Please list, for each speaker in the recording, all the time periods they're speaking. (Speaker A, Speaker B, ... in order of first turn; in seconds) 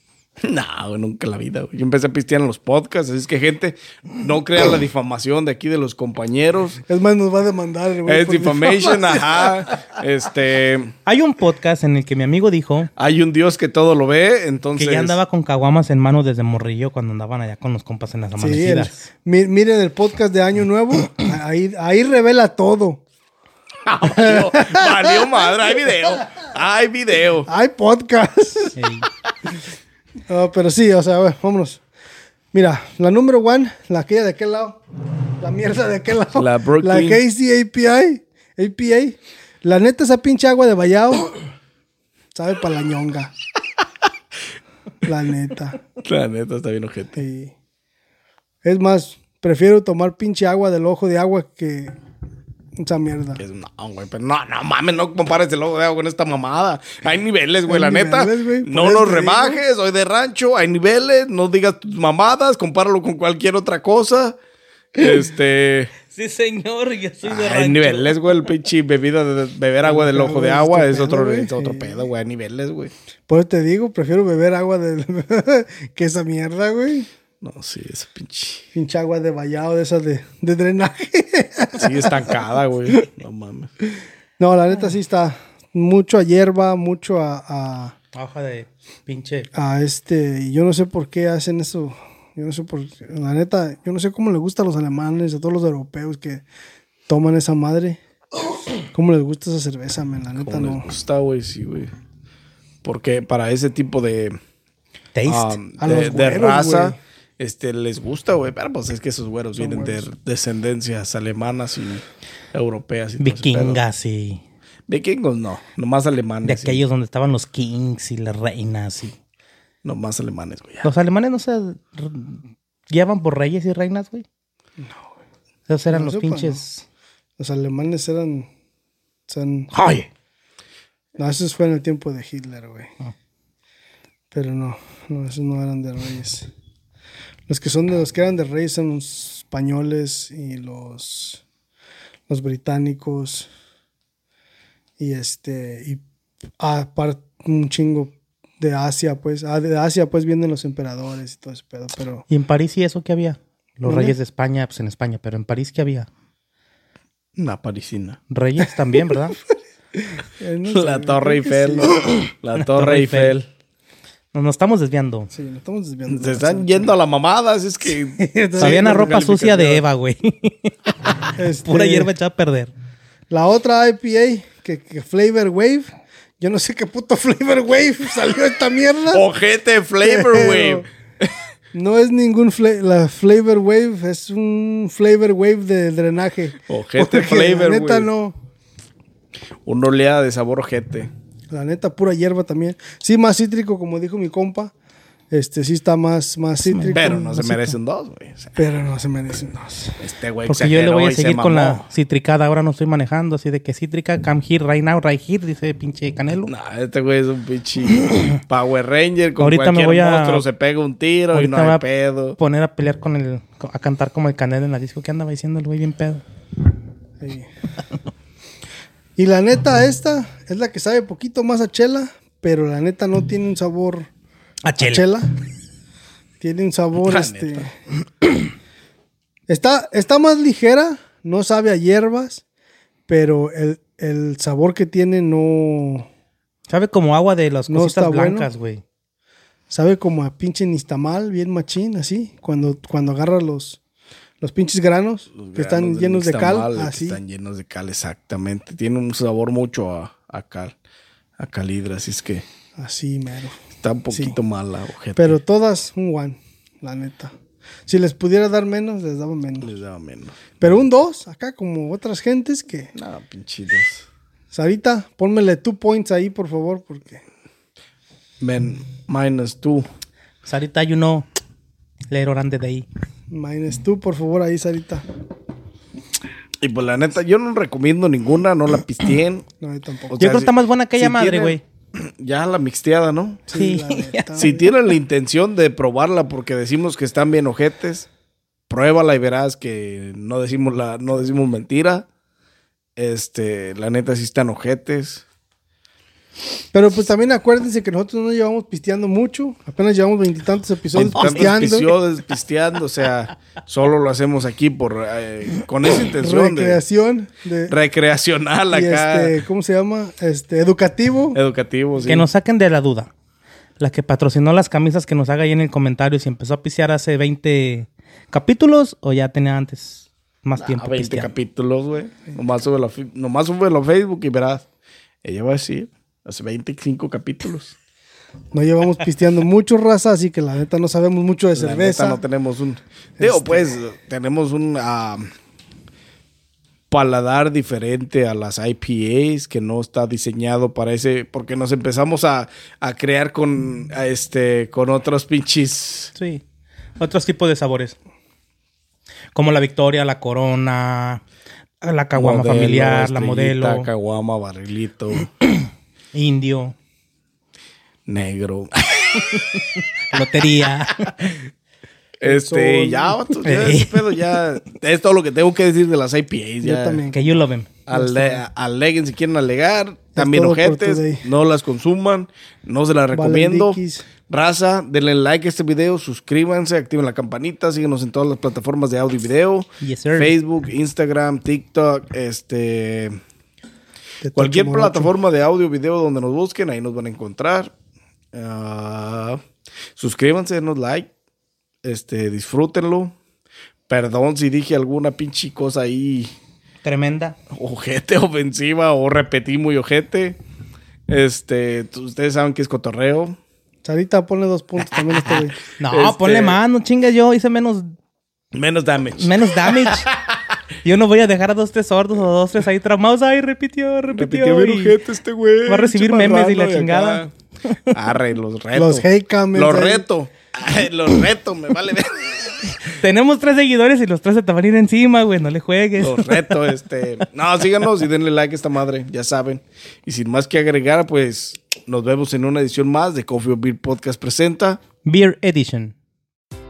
Speaker A: 0.4-6.8, 8.1-10.9, 13.0-15.2, 23.9-27.5, 36.3-37.2, 46.0-47.2, 53.4-64.4, 64.9-65.9, 67.2-72.9, 77.4-78.7, 81.8-83.7, 100.3-101.9, 102.8-104.4, 105.3-113.8, 114.9-116.8, 119.8-120.9, 157.3-158.2, 160.7-163.5, 166.1-169.8, 179.1-181.3, 186.7-188.1, 189.6-191.1, 196.9-198.6, 200.0-201.8, 206.4-212.4, 226.9-227.7, 245.3-250.7, 251.4-252.4, 253.8-255.4, 259.6-260.5, 262.9-264.0, 268.4-269.9, 276.6-279.4, 280.1-283.5, 284.4-288.1, 288.7-292.1, 292.9-295.2, 300.9-306.8, 307.7-309.4, 311.3-312.3, 320.6-324.6, 325.2-327.8, 331.5-335.3, 336.9-346.1, 352.1-355.3, 358.1-359.5, 362.2-367.0, 367.9-383.2, 384.3-387.7, 388.3-389.4, 389.9-391.1, 391.8-393.1, 393.9-396.3, 397.5-400.4, 401.1-403.4, 405.1-406.6, 408.5-410.4, 414.1-417.3, 417.9-422.8, 426.0-434.8
Speaker B: 6.9-9.5, 18.4-23.0, 24.0-25.4, 27.5-28.8, 30.3-31.8, 32.5-34.8, 35.4-41.3, 42.3-43.3, 45.0-45.8, 47.1-47.5, 48.6-51.9, 52.8-53.4, 57.7-59.6, 69.8-72.0, 73.3-77.1, 78.7-82.3, 84.4-87.9, 89.5-96.4, 97.1-98.0, 98.9-100.9, 105.8-107.0, 109.5-110.0, 124.8-125.1, 125.9-126.6, 127.4-128.5, 129.3-129.7, 131.2-132.9, 134.3-136.5, 137.5-141.4, 142.3-143.5, 145.0-146.0, 146.6-152.2, 153.8-154.2, 160.0-162.0, 165.3-166.9, 168.2-169.2, 171.3-172.1, 173.3-179.2, 180.0-180.8, 181.7-188.4, 191.5-194.7, 195.3-197.5, 198.6-200.0, 217.2-217.5, 219.2-224.1, 224.8-225.3, 226.4-227.7, 229.5-232.4, 233.1-236.1, 237.7-238.5, 239.7-243.8, 244.4-247.2, 252.8-253.6, 254.1-254.4, 255.2-257.3, 257.9-259.7, 260.6-262.9, 264.5-267.2, 273.3-275.1, 279.6-280.2, 283.5-284.7, 296.7-301.9, 306.2-307.7, 308.7-311.4, 328.5-332.2, 333.2-333.7, 362.2-363.4, 366.6-368.4, 370.1-371.2, 373.1-374.0, 384.2-385.1, 403.8-405.6, 418.7-420.0
Speaker C: 11.1-12.9, 14.8-19.0, 28.8-29.1, 66.1-68.2, 88.1-89.5, 105.1-105.6, 113.2-114.4, 116.4-119.2, 120.8-124.2, 125.7-126.8, 129.7-130.1, 152.3-156.1, 158.3-159.4, 162.6-163.4, 164.3-165.3, 168.6-170.7, 171.6-172.7, 196.6-197.7, 200.4-206.5, 209.4-210.4, 211.3-211.8, 212.4-216.2, 224.7-225.1, 236.7-238.8, 270.4-271.2, 272.1-272.9, 280.2-281.6, 283.5-284.4, 312.1-313.1, 313.8-321.3, 346.1-346.4, 347.0-347.9, 349.3-351.2, 351.8-353.9, 355.5-356.7, 360.1-361.2, 363.4-364.1, 367.1-367.7, 379.8-380.3, 396.8-397.4, 405.8-407.9, 409.2-410.1, 410.8-415.0, 415.6-417.2, 423.0-426.5, 435.0-435.9